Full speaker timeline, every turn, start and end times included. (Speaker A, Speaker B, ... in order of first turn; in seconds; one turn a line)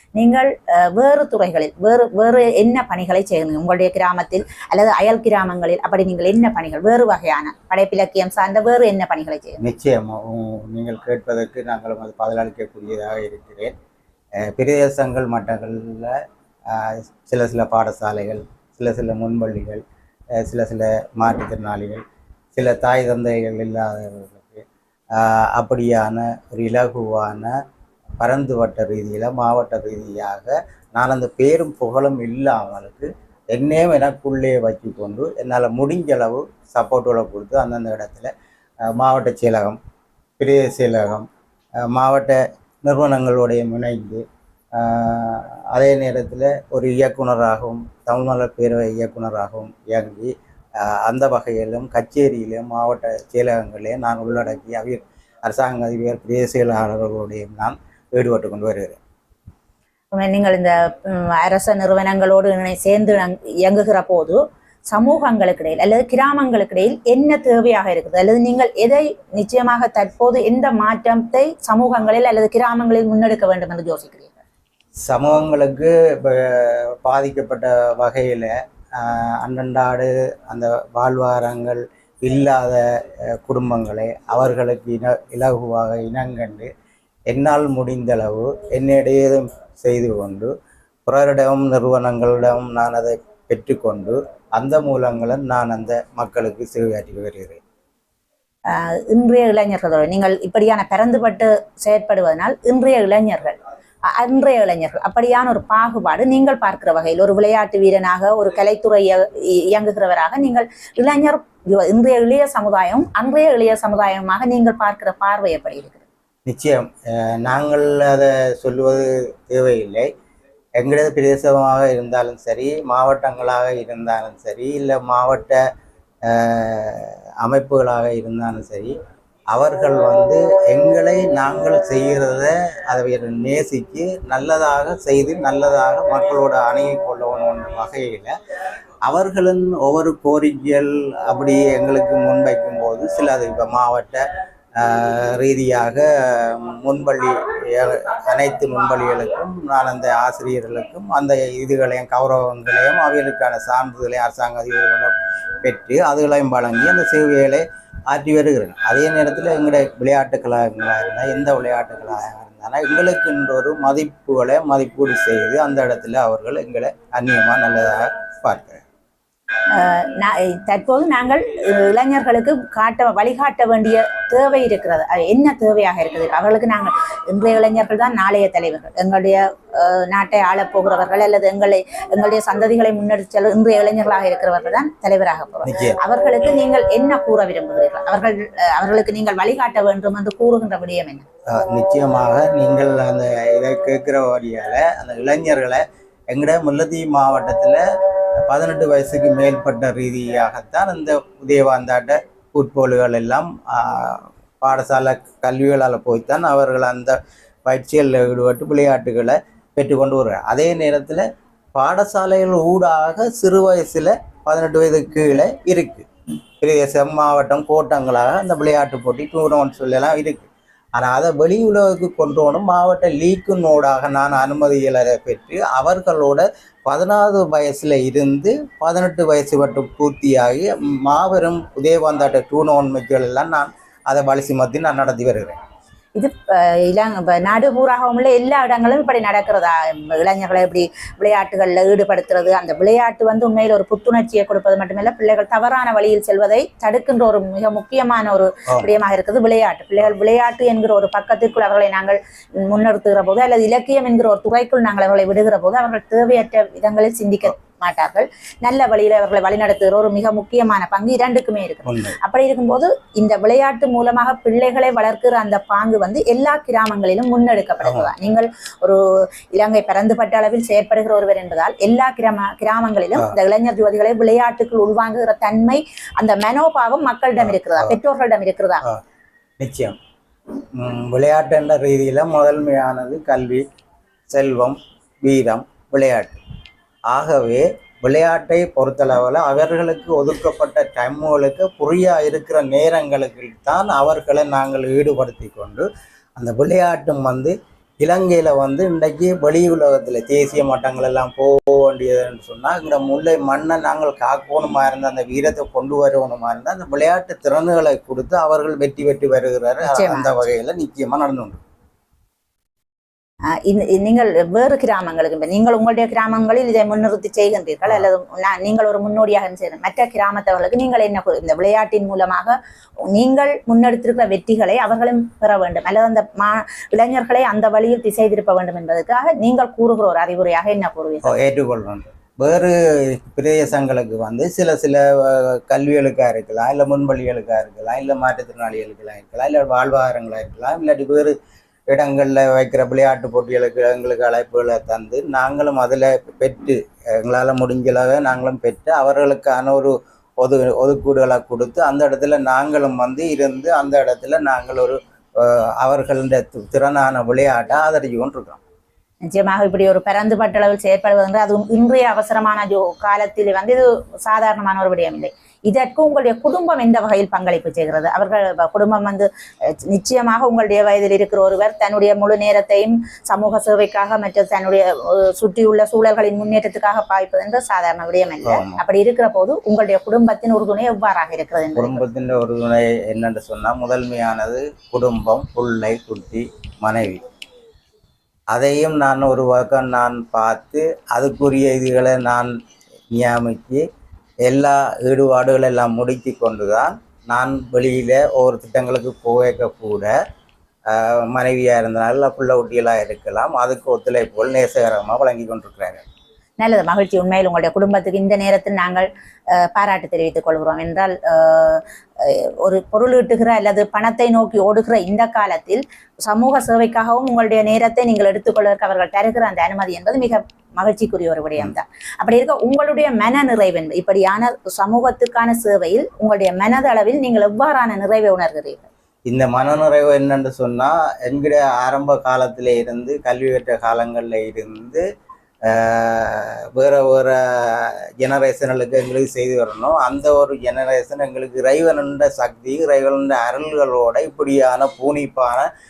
Speaker A: 0.1-9.6
Speaker B: 9.6-13.7
Speaker B: 14.4-19.8
Speaker B: 20.4-22.0
Speaker B: 22.5-27.6
Speaker B: 28.2-38.3
Speaker B: 38.8-39.8
Speaker B: 40.4-41.3
Speaker B: 41.9-44.2
Speaker B: 44.7-59.0
Speaker A: 60.1-74.4
Speaker B: 75.0-86.7
Speaker B: 87.3-90.5
Speaker B: 91.0-97.6
Speaker A: 98.7-103.6
Speaker A: 104.1-116.0
Speaker B: 116.5-120.1
Speaker B: 120.8-125.6
Speaker B: 126.2-128.9
Speaker B: 129.5-138.3
Speaker B: 139.1-144.2
Speaker B: 144.8-168.8
Speaker A: 169.7-191.2
Speaker B: 185.6-186.0
Speaker B: 191.5-197.8
Speaker B: 198.4-216.1
Speaker B: 216.6-235.6
Speaker A: 236.2-278.8
Speaker B: 261.9-262.2
Speaker B: 267.8-268.1
Speaker B: 277.4-277.9
Speaker B: 279.6-279.9
Speaker B: 280.7-283.6
Speaker B: 284.3-286.4
Speaker B: 287.1-311.6
Speaker A: 309.9-310.3
Speaker A: 313.5-322.6
Speaker A: 323.1-331.3
Speaker B: 331.2-341.3
Speaker B: 341.9-358.6
Speaker A: 359.2-382.0
Speaker B: 378.4-378.8
Speaker B: 381.8-387.2
Speaker B: 388.5-392.5
Speaker B: 393.1-393.8
Speaker B: 394.4-400.1
Speaker B: 400.9-406.0
Speaker A: 406.6-428.9
Speaker B: 429.3-435.0
Speaker B: 435.6-445.7